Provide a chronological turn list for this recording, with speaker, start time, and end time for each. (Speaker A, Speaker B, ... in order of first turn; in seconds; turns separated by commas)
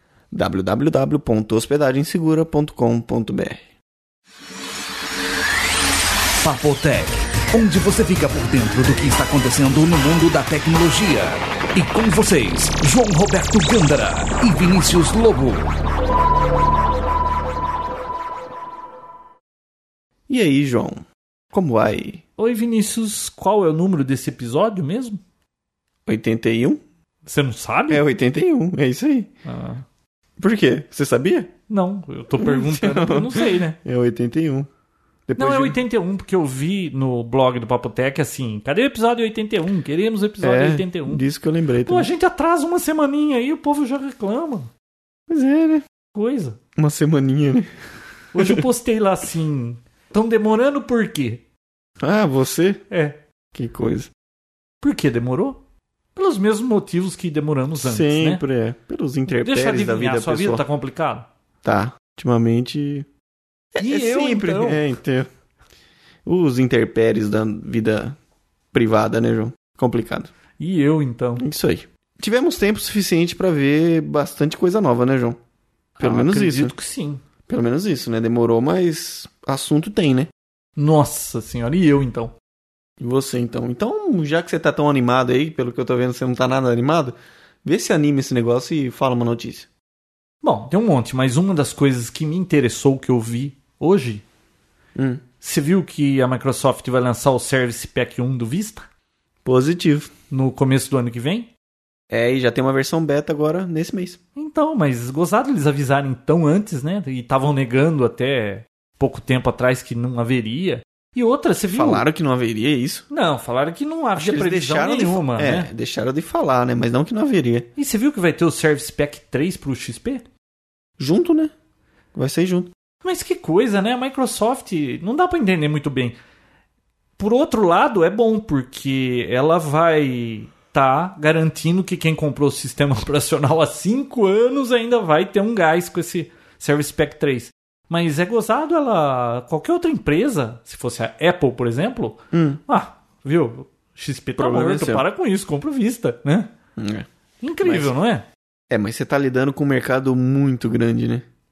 Speaker A: 0.3-3.6, Speaker B: 6.4-15.6, Speaker A: 20.3-22.2, Speaker C: 22.4-25.2, Speaker A: 26.1-26.8, Speaker C: 27.2-28.0, Speaker A: 27.9-29.3, Speaker C: 29.4-29.8, Speaker A: 30.4-31.5, Speaker C: 31.7-33.8, Speaker A: 32.4-34.7, Speaker A: 35.3-35.8, Speaker C: 35.4-41.2, Speaker A: 40.4-42.1, Speaker C: 41.9-44.7, Speaker A: 45.3-45.9, Speaker C: 46.1-46.6, Speaker A: 46.8-47.7, Speaker C: 48.3-51.4, Speaker A: 48.4-48.6, Speaker A: 52.0-52.8, Speaker C: 52.9-53.2, Speaker A: 53.5-54.1, Speaker C: 54.8-55.6, Speaker C: 56.1-58.4, Speaker A: 57.8-60.6, Speaker C: 59.3-61.3, Speaker A: 61.6-63.1, Speaker A: 63.7-65.3, Speaker C: 63.8-64.8, Speaker A: 66.2-68.2, Speaker A: 68.7-70.3, Speaker C: 70.6-71.4, Speaker A: 71.4-75.4, Speaker C: 76.0-77.2, Speaker A: 76.0-76.7, Speaker A: 77.5-80.3, Speaker C: 80.8-82.3, Speaker A: 83.0-89.7, Speaker C: 90.4-94.2, Speaker A: 95.0-95.2, Speaker C: 95.4-98.9, Speaker A: 99.5-100.1, Speaker C: 100.3-101.5, Speaker A: 102.1-104.2, Speaker C: 104.4-112.0, Speaker A: 111.8-113.1, Speaker C: 113.1-115.7, Speaker A: 114.2-117.7, Speaker C: 117.8-120.2, Speaker A: 121.0-121.5, Speaker A: 122.2-122.7, Speaker C: 123.0-126.2, Speaker C: 127.2-146.5, Speaker A: 142.3-142.6, Speaker A: 144.4-145.1, Speaker A: 146.8-147.1, Speaker C: 147.4-148.3, Speaker A: 147.6-147.9, Speaker A: 148.7-151.2